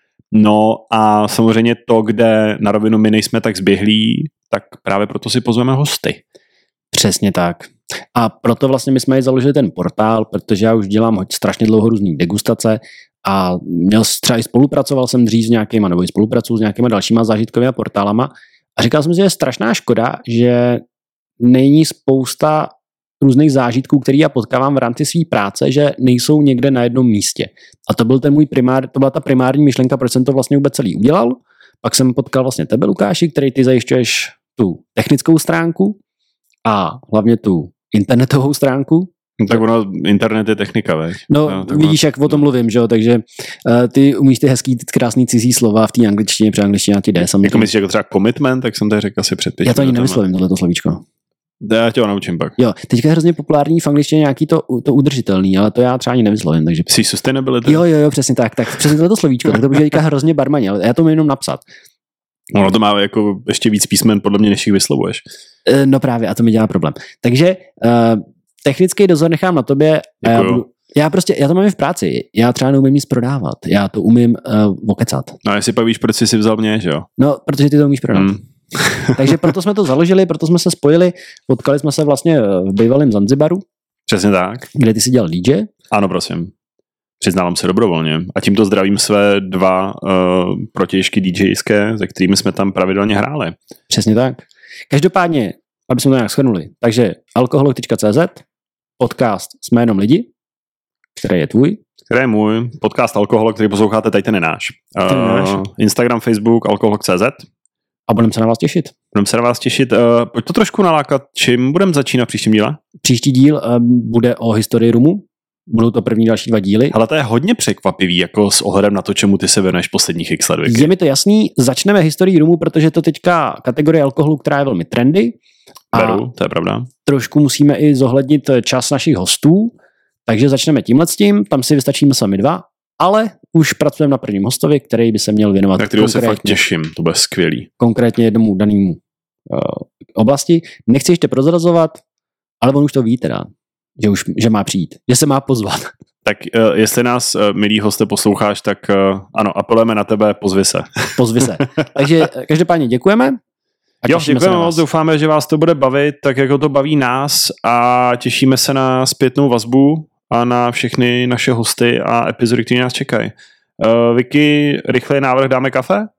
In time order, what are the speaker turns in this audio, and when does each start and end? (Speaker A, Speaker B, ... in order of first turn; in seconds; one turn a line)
Speaker A: 0.3-6.2
Speaker B: 6.9-20.8
Speaker B: 21.4-36.0
Speaker B: 36.6-39.1
Speaker A: 39.4-42.4
Speaker B: 41.3-47.7
Speaker A: 47.4-50.2
Speaker B: 49.6-51.0
Speaker A: 51.6-52.6
Speaker B: 52.6-56.9
Speaker A: 56.9-57.8
Speaker B: 57.6-61.6
Speaker A: 62.5-65.2
Speaker B: 65.7-75.4
Speaker A: 70.2-70.6
Speaker A: 75.4-77.1
Speaker B: 77.2-78.4
Speaker A: 78.1-79.5
Speaker B: 79.2-83.6
Speaker A: 84.1-84.7
Speaker B: 84.7-85.7
Speaker A: 85.9-86.5
Speaker A: 87.2-93.6
Speaker B: 93.9-98.4
Speaker B: 99.0-100.3
Speaker B: 101.2-101.8
Speaker A: 102.1-107.5
Speaker B: 105.1-105.7
Speaker B: 108.1-108.9
Speaker A: 109.1-112.8
Speaker B: 113.0-117.0
Speaker A: 116.9-120.9
Speaker B: 120.7-125.4
Speaker B: 125.9-126.2
Speaker A: 125.9-126.9
Speaker B: 127.0-129.7
Speaker B: 130.3-136.6
Speaker A: 135.8-137.7
Speaker B: 137.8-142.0
Speaker B: 142.6-145.9
Speaker A: 146.2-151.5
Speaker B: 151.2-153.4
Speaker B: 154.0-154.8
Speaker A: 154.1-166.1